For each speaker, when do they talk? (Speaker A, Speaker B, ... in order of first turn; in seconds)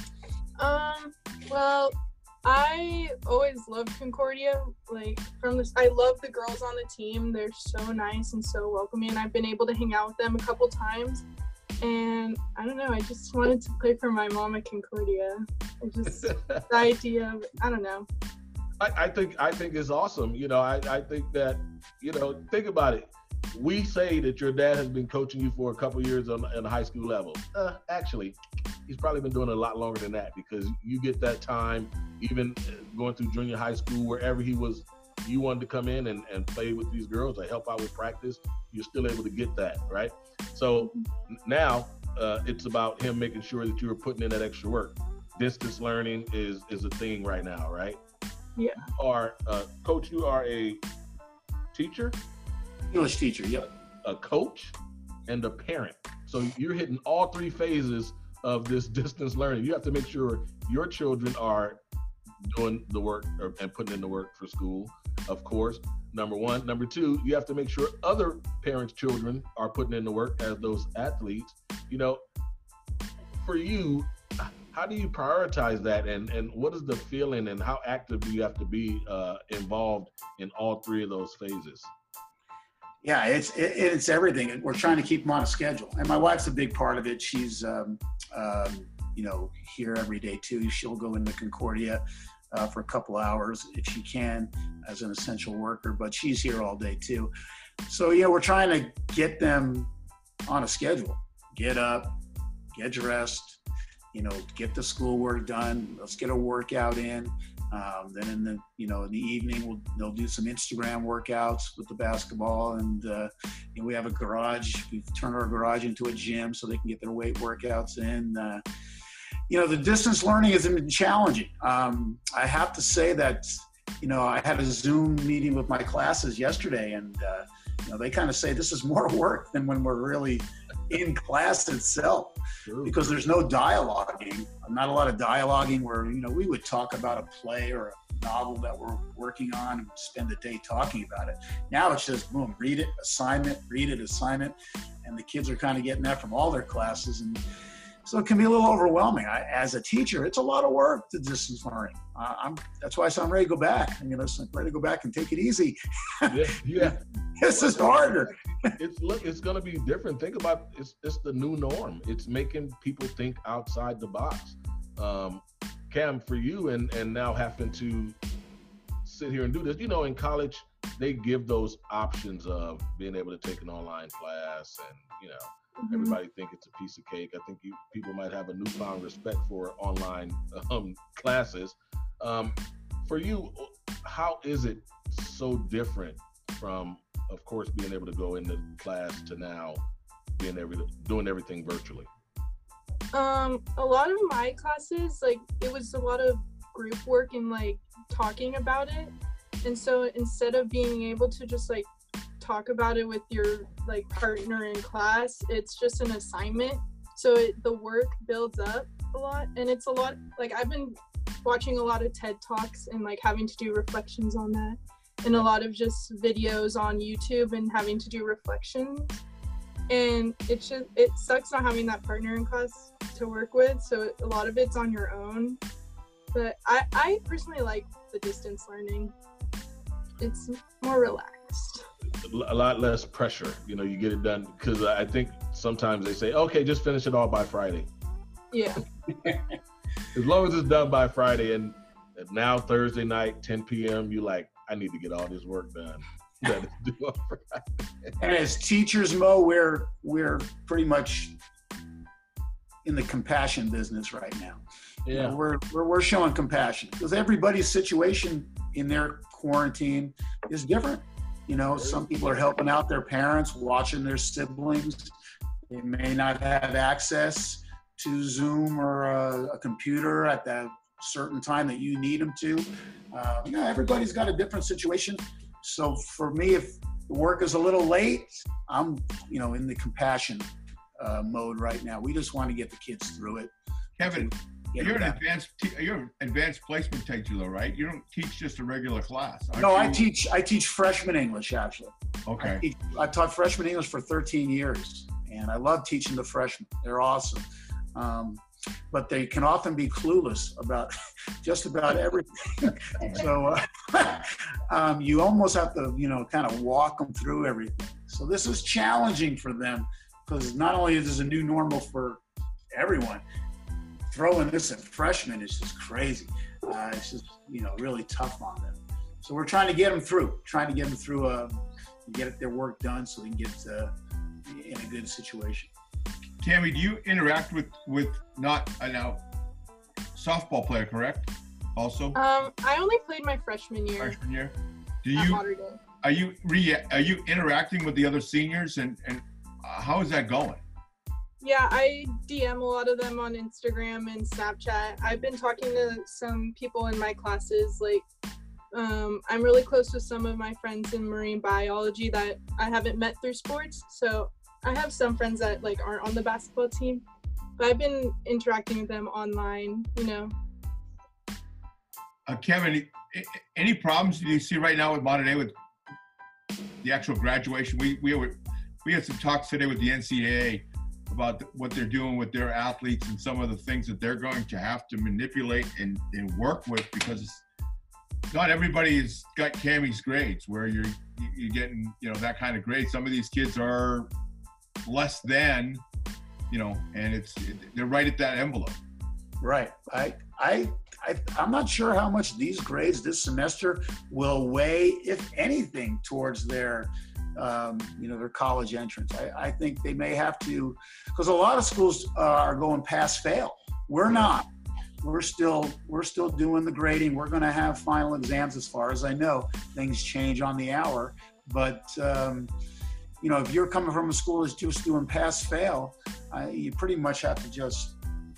Speaker A: 0.6-11.2, 11.8-18.1, 40.8-41.1, 48.6-48.9, 175.8-176.2, 193.1-199.1, 199.6-201.9, 202.4-219.2, 219.9-225.6, 226.3-229.1, 230.2-231.8, 238.5-238.8, 332.1-334.2, 335.1-335.8, 341.4-348.1, 348.7-357.0, 357.6-360.3
Speaker B: 16.2-16.7, 18.8-48.0, 49.0-50.8, 51.7-52.2, 53.6-54.8, 55.3-61.8, 62.5-72.2, 73.4-81.9, 132.7-133.0, 156.3-168.2, 169.1-182.5, 183.1-189.8, 190.3-192.1, 232.2-237.9, 240.1-248.1, 255.1-255.4
Speaker C: 52.9-53.7, 83.0-97.3, 97.9-99.9, 100.5-102.2, 102.7-103.6, 104.1-118.6, 119.5-147.4, 148.1-158.3, 248.2-251.4, 252.8-265.1, 265.7-283.5, 284.0-285.2, 289.6-312.2, 312.7-313.2, 314.1-323.9, 324.5-325.7, 389.4-404.5, 405.0-412.5, 413.2-418.0
Speaker D: 284.0-290.1, 292.3-292.6, 326.4-329.2, 330.2-332.2, 334.0-335.4, 336.0-340.6, 362.3-365.6, 366.8-377.4, 378.3-384.1, 384.9-385.8, 386.5-388.8